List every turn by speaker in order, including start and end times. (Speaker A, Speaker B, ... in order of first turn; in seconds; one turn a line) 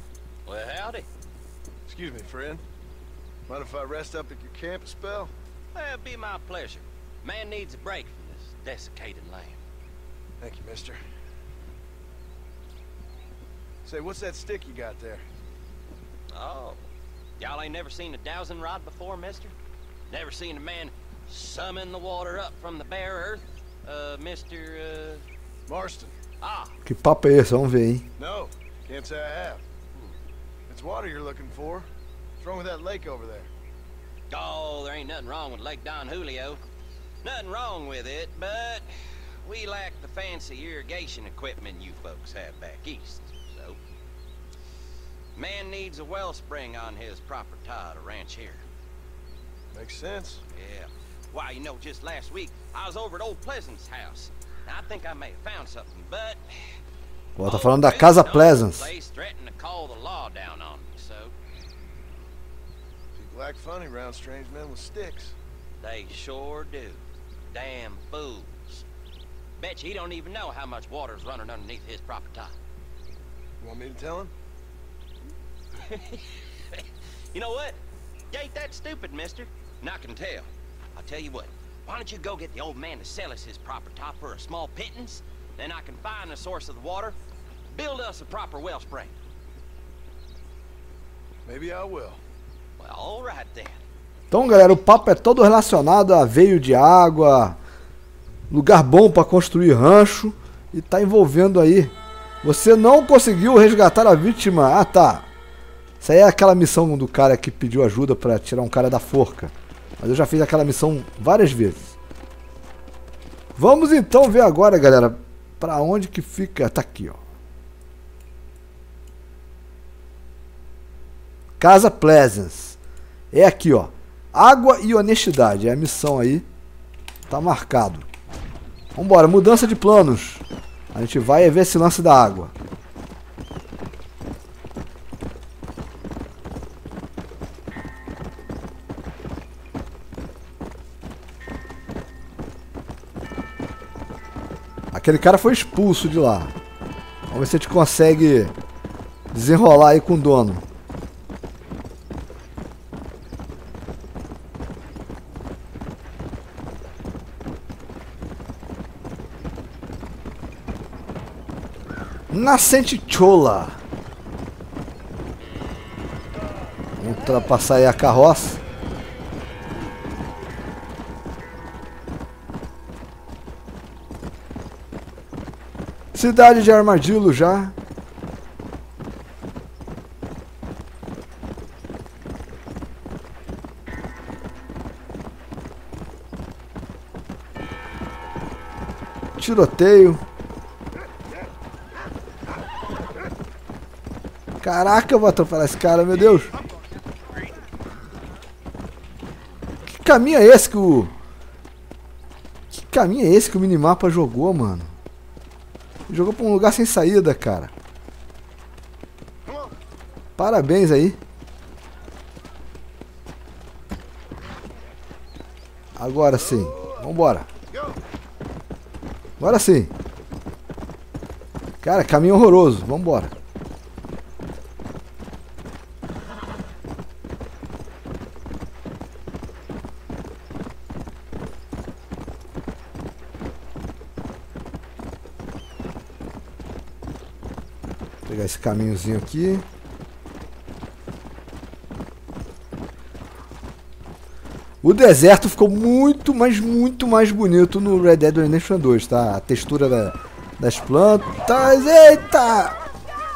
Speaker A: 0.5-1.1
Speaker B: 1.9-2.6
Speaker B: 3.5-5.3
Speaker A: 5.7-9.6
Speaker B: 10.4-11.0
Speaker B: 13.8-15.2
Speaker A: 16.3-16.8
Speaker A: 17.4-19.5
Speaker A: 20.1-25.2
Speaker B: 25.7-26.1
Speaker A: 26.4-26.8
Speaker C: 26.9-28.1
Speaker B: 28.2-29.6
Speaker B: 30.7-31.9
Speaker B: 32.4-33.5
Speaker A: 34.3-36.6
Speaker A: 37.2-38.9
Speaker A: 39.4-43.8
Speaker A: 45.4-48.6
Speaker B: 49.7-50.4
Speaker A: 50.5-56.4
Speaker C: 57.4-58.9
Speaker A: 57.4-61.3
Speaker B: 63.1-65.3
Speaker A: 65.8-67.0
Speaker A: 67.5-68.8
Speaker A: 69.6-72.5
Speaker B: 73.6-74.3
Speaker A: 75.8-77.8
Speaker A: 78.3-87.2
Speaker A: 87.7-89.1
Speaker B: 91.5-92.2
Speaker A: 92.8-93.8
Speaker C: 94.3-97.6
Speaker C: 98.5-105.3
Speaker C: 106.0-112.0
Speaker C: 113.6-117.2
Speaker C: 121.6-122.8
Speaker C: 123.3-126.5
Speaker C: 127.3-128.1
Speaker C: 128.9-132.5
Speaker C: 144.9-146.5
Speaker C: 147.3-148.5
Speaker C: 149.3-150.6
Speaker C: 162.3-163.8
Speaker C: 167.0-168.6
Speaker C: 176.1-177.8
Speaker C: 189.4-190.2
Speaker C: 194.6-196.5
Speaker C: 199.9-201.1
Speaker C: 202.7-204.9
Speaker C: 206.1-207.7
Speaker B: 209.5-209.7
Speaker C: 210.4-211.2
Speaker C: 216.0-217.5
Speaker B: 216.3-217.1
Speaker B: 217.7-218.0
Speaker C: 219.4-219.9
Speaker C: 221.8-223.3
Speaker C: 238.3-239.7
Speaker C: 244.8-252.8